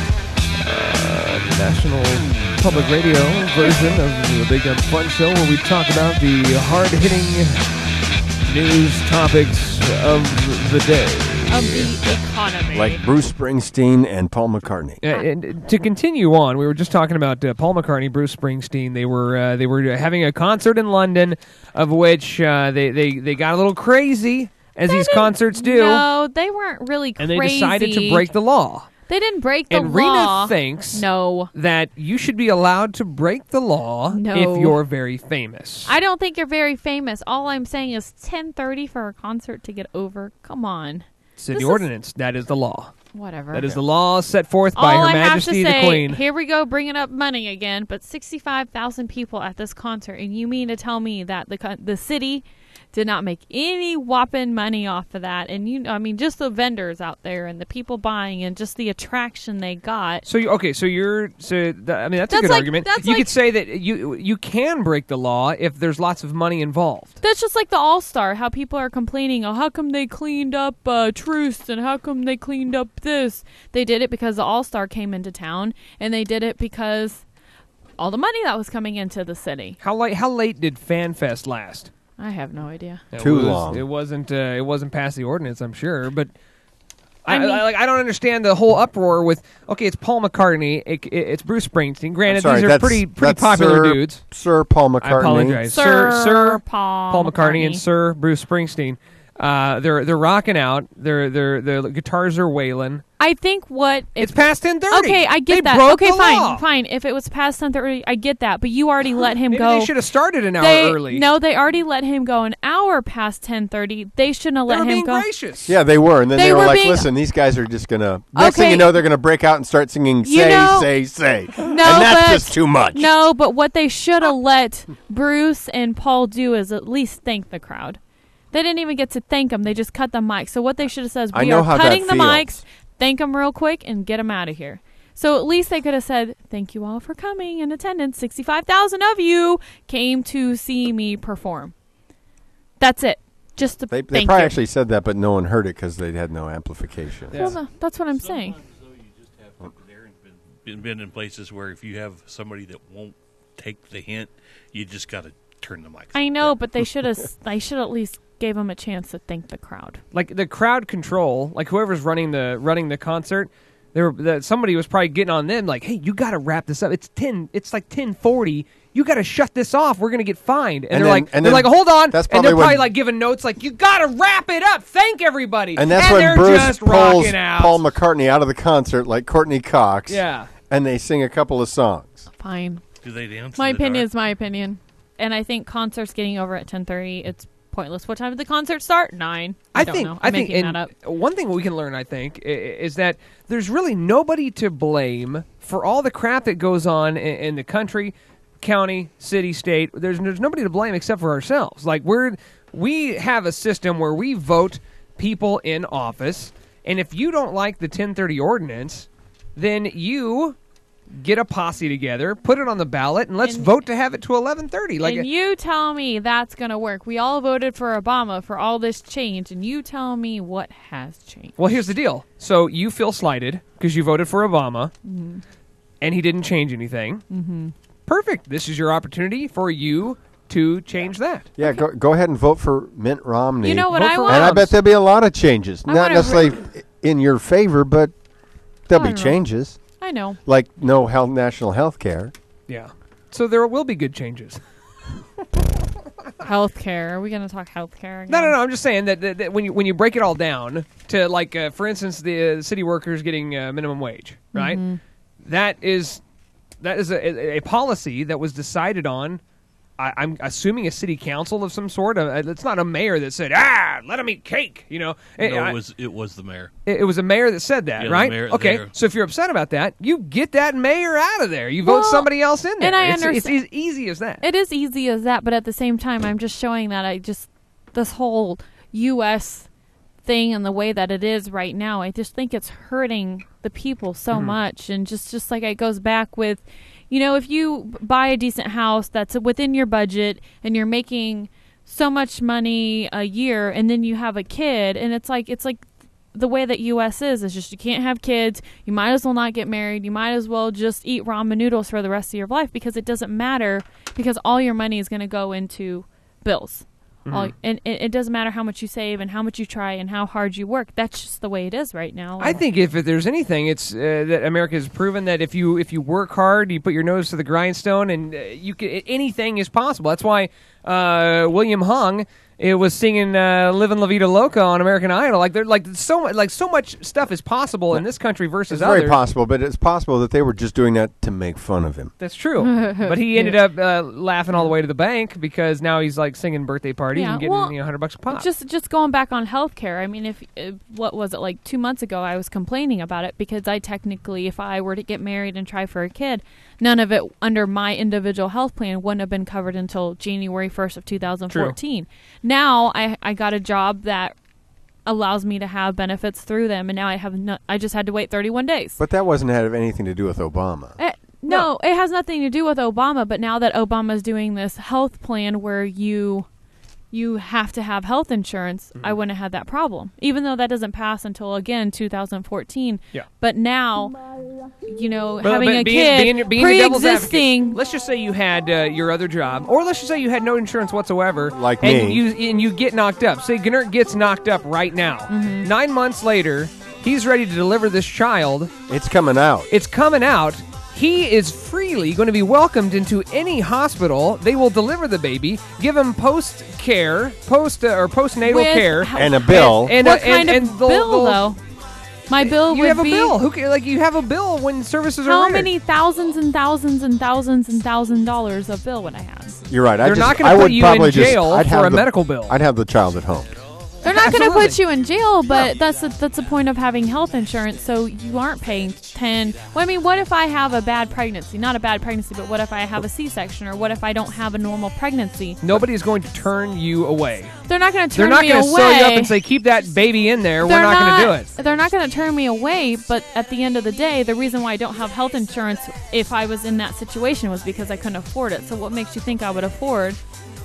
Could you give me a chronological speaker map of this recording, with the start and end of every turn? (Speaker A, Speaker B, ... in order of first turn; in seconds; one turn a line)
Speaker A: 0.5-7.7
Speaker A: 8.5-12.2
Speaker B: 11.5-13.0
Speaker C: 12.7-15.0
Speaker A: 15.0-26.1
Speaker B: 24.9-28.3
Speaker A: 27.2-28.9
Speaker B: 29.1-31.5
Speaker A: 29.7-35.9
Speaker B: 34.1-34.8
Speaker B: 35.8-41.9
Speaker A: 41.4-43.0
Speaker B: 43.1-43.7
Speaker A: 43.5-46.2
Speaker B: 44.7-60.2
Speaker A: 60.2-67.2
Speaker B: 62.3-63.3
Speaker B: 67.2-77.2
Speaker B: 78.0-79.8
Speaker A: 79.8-81.9
Speaker B: 82.2-83.0
Speaker A: 83.1-86.3
Speaker C: 83.2-83.8
Speaker A: 87.2-94.2
Speaker B: 87.3-87.6
Speaker C: 92.3-95.7
Speaker A: 95.0-103.0
Speaker B: 95.7-97.8
Speaker B: 103.2-109.9
Speaker A: 104.2-106.6
Speaker A: 109.5-111.2
Speaker B: 110.6-115.3
Speaker A: 114.7-115.8
Speaker C: 115.7-123.2
Speaker B: 116.3-117.1
Speaker B: 118.3-119.0
Speaker B: 120.2-120.9
Speaker B: 121.6-128.0
Speaker B: 128.5-141.7
Speaker C: 131.3-132.6
Speaker B: 142.8-144.6
Speaker C: 143.9-147.5
Speaker A: 147.3-147.6
Speaker B: 147.3-148.6
Speaker D: 148.3-156.5
Speaker B: 156.1-160.0
Speaker A: 160.1-177.8
Speaker C: 170.9-172.9
Speaker C: 175.8-182.2
Speaker A: 180.1-180.5
Speaker B: 182.4-182.8
Speaker D: 183.0-184.1
Speaker B: 183.6-190.9
Speaker A: 189.7-210.6
Speaker A: 211.2-215.3
Speaker B: 213.4-213.8
Speaker B: 215.0-221.8
Speaker A: 221.6-224.9
Speaker B: 225.1-225.4
Speaker A: 226.0-227.2
Speaker B: 227.3-227.7
Speaker A: 228.1-231.5
Speaker C: 231.6-238.1
Speaker B: 233.6-234.7
Speaker A: 233.9-234.7
Speaker B: 235.9-236.5
Speaker C: 238.9-239.8
Speaker B: 238.9-239.4
Speaker B: 240.0-240.4
Speaker C: 240.5-242.3
Speaker A: 242.7-244.6
Speaker B: 246.4-248.6
Speaker A: 248.3-254.8
Speaker B: 254.5-255.0
Speaker A: 255.4-256.2
Speaker A: 256.8-259.4
Speaker A: 260.0-265.8
Speaker D: 265.4-266.7
Speaker A: 266.9-274.4
Speaker D: 268.0-268.9
Speaker B: 271.8-273.6
Speaker B: 274.4-279.7
Speaker B: 280.2-312.6
Speaker A: 307.2-307.5
Speaker A: 312.4-329.2
Speaker C: 328.7-332.1
Speaker A: 332.2-338.4
Speaker B: 332.6-333.6
Speaker B: 337.1-354.4
Speaker A: 351.5-351.8
Speaker B: 355.1-359.0
Speaker C: 359.0-361.0
Speaker B: 361.0-366.5
Speaker B: 367.1-374.1
Speaker B: 374.9-377.8
Speaker A: 375.4-388.7
Speaker C: 381.5-382.2
Speaker B: 385.3-385.7
Speaker C: 388.9-389.7
Speaker A: 389.7-401.5
Speaker B: 398.4-401.6
Speaker C: 399.1-400.0
Speaker B: 402.3-403.4
Speaker A: 402.4-405.7
Speaker B: 405.2-409.6
Speaker C: 409.7-413.5
Speaker A: 410.0-412.6
Speaker B: 414.0-425.8
Speaker A: 414.1-414.8
Speaker A: 425.6-427.6
Speaker B: 427.6-429.3
Speaker A: 428.1-431.5
Speaker B: 430.6-440.2